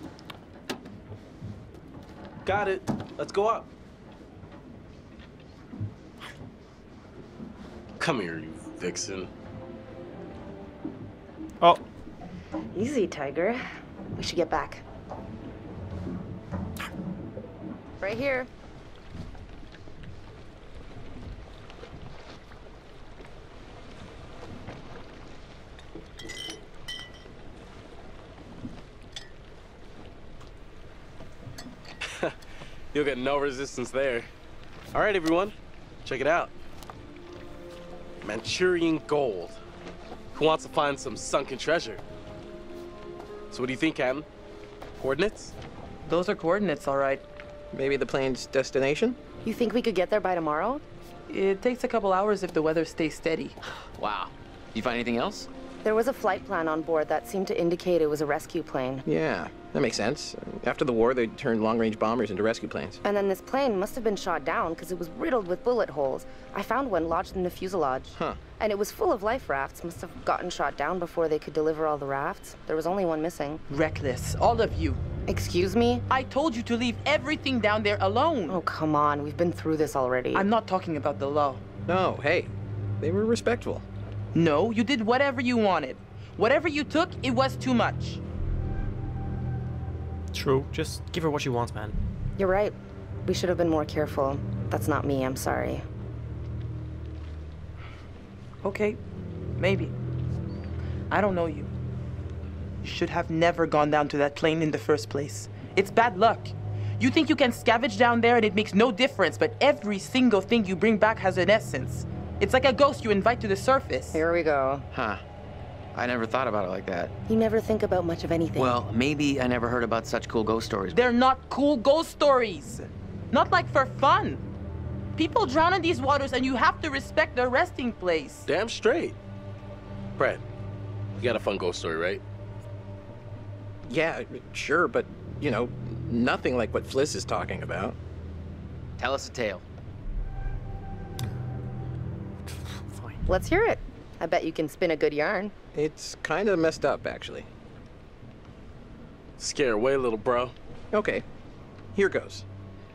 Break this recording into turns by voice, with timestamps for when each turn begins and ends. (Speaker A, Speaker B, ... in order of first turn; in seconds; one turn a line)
Speaker A: 2.5-3.7
Speaker A: 8.0-9.3
Speaker B: 12.7-13.7
Speaker B: 14.2-14.8
Speaker B: 18.0-18.5
Speaker A: 32.9-34.3
Speaker A: 34.9-36.5
Speaker A: 38.2-39.6
Speaker A: 40.4-42.0
Speaker A: 43.5-44.3
Speaker A: 45.0-45.5
Speaker C: 46.1-47.2
Speaker D: 47.7-49.2
Speaker B: 49.4-50.8
Speaker C: 51.3-53.6
Speaker E: 54.0-55.5
Speaker B: 55.8-59.0
Speaker D: 59.1-63.0
Speaker B: 63.0-73.6
Speaker D: 68.2-68.4
Speaker C: 73.7-75.0
Speaker B: 75.3-76.1
Speaker C: 76.1-78.6
Speaker B: 78.5-80.5
Speaker C: 80.3-81.6
Speaker D: 81.9-83.9
Speaker C: 84.3-88.2
Speaker F: 90.3-92.0
Speaker B: 92.4-95.8
Speaker C: 98.6-99.0
Speaker C: 99.6-99.9
Speaker C: 101.1-101.7
Speaker C: 102.8-114.2
Speaker B: 114.1-114.9
Speaker E: 114.9-115.2
Speaker E: 115.9-117.1
Speaker B: 117.3-118.8
Speaker E: 118.6-121.1
Speaker C: 120.9-124.4
Speaker C: 125.2-128.5
Speaker A: 128.5-129.2
Speaker A: 130.2-130.4
Speaker A: 131.2-132.2
Speaker D: 133.9-138.0
Speaker E: 139.0-139.6
Speaker F: 142.4-143.2
Speaker B: 143.3-145.5
Speaker D: 145.7-147.5
Speaker A: 149.4-150.5
Speaker D: 150.9-151.2
Speaker D: 151.9-152.4